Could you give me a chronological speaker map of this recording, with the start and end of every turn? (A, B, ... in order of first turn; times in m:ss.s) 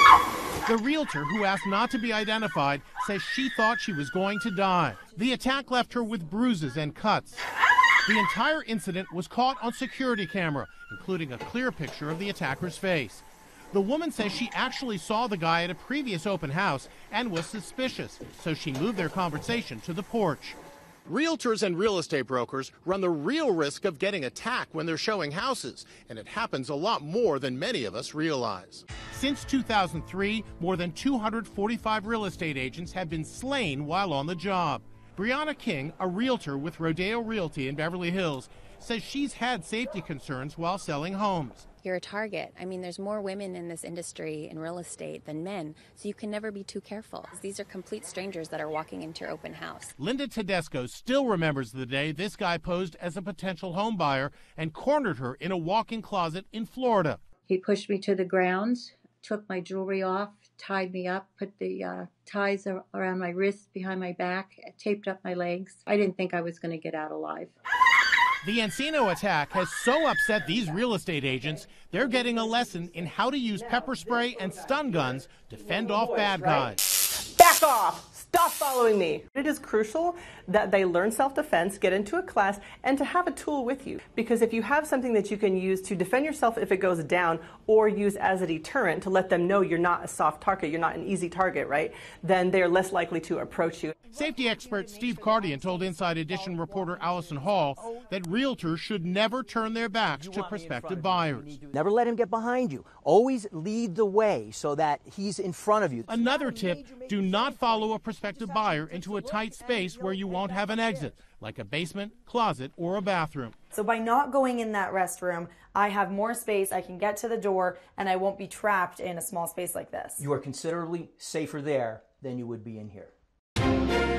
0:00.7-0:07.4 A
0:08.1-0:41.7 A
0:41.8-0:49.9 B
0:50.0-0:57.2 A
0:57.5-1:07.5 C
1:08.4-1:16.8 A
1:11.7-1:34.0 D
1:34.1-1:41.6 A
1:35.0-1:37.0 E
1:40.2-1:51.1 E
1:46.1-1:53.6 A
1:53.7-2:00.3 F
2:00.2-2:03.1 E